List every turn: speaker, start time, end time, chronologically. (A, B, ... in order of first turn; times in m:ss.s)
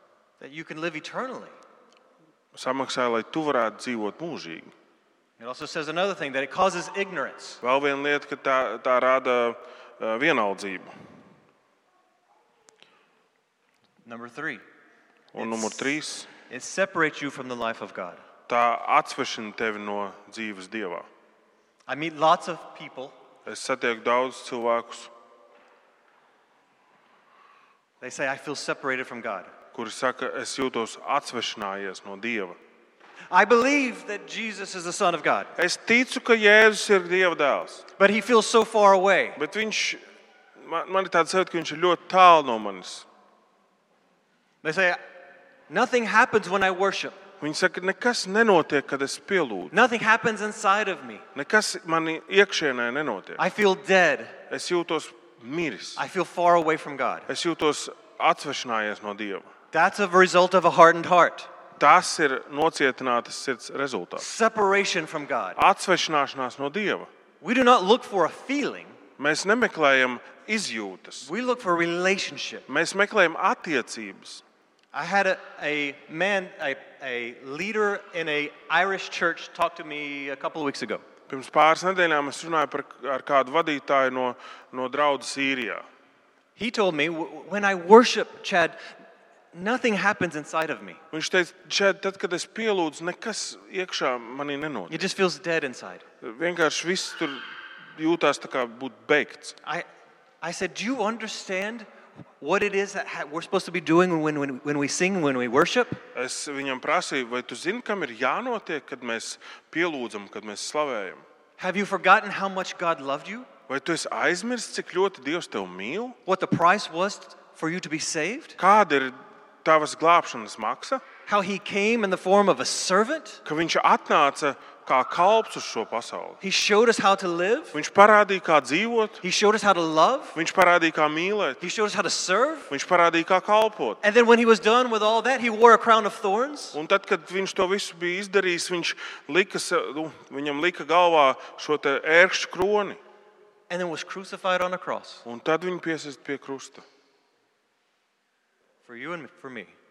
0:00.4-0:01.5 A
0:02.5-0:04.7 B
0:05.4-0:07.6 A
0:07.6-0:10.9 B
0:14.0-0:14.6 A
0:15.3-0:16.3 B
0:15.4-0:18.2 A
0:18.5-0:21.0 B
0:21.9-0:23.2 A
0:23.4-0:25.1 B
0:28.0-0:29.5 A
0:29.7-0:32.6 B
0:33.3-0:35.5 A
0:35.6-0:37.8 B
0:38.0-0:39.4 A
0:39.4-0:40.0 B
0:40.6-0:43.1 B
0:44.6-0:45.0 A
0:45.7-0:47.2 A
0:47.4-0:49.7 B
0:49.7-0:51.2 A
0:51.3-0:53.4 B
0:53.4-0:54.4 A
0:54.5-0:56.0 B
0:56.0-0:57.3 A
0:57.3-0:59.5 B
0:59.7-1:01.5 A
1:01.8-1:04.2 B
1:04.2-1:05.6 A
1:05.6-1:07.1 B
1:07.4-1:09.0 A
1:09.2-1:11.3 B
1:11.2-1:12.6 A
1:12.7-1:14.4 B
1:14.9-1:21.0 A
1:21.3-1:25.8 B
1:26.6-1:28.8 A
1:29.5-1:31.0 A
1:31.1-1:35.1 B
1:34.9-1:36.0 A
1:36.2-1:37.4 B
1:37.9-1:39.6 B
1:40.4-1:41.9 A
1:42.4-1:46.0 A
1:46.1-1:51.2 B
1:51.6-1:53.5 A
1:53.7-1:56.2 B
1:56.2-1:58.6 A
1:58.6-2:01.0 B
2:01.3-2:03.4 A
2:03.4-2:06.4 B
2:06.4-2:07.7 A
2:07.7-2:09.2 B
2:09.2-2:10.4 A
2:10.3-2:11.6 B
2:11.6-2:12.7 A
2:12.7-2:14.0 B
2:14.0-2:16.8 A
2:16.7-2:23.0 B
2:23.7-2:25.2 A
2:25.2-2:26.8 B
2:28.8-2:29.7 A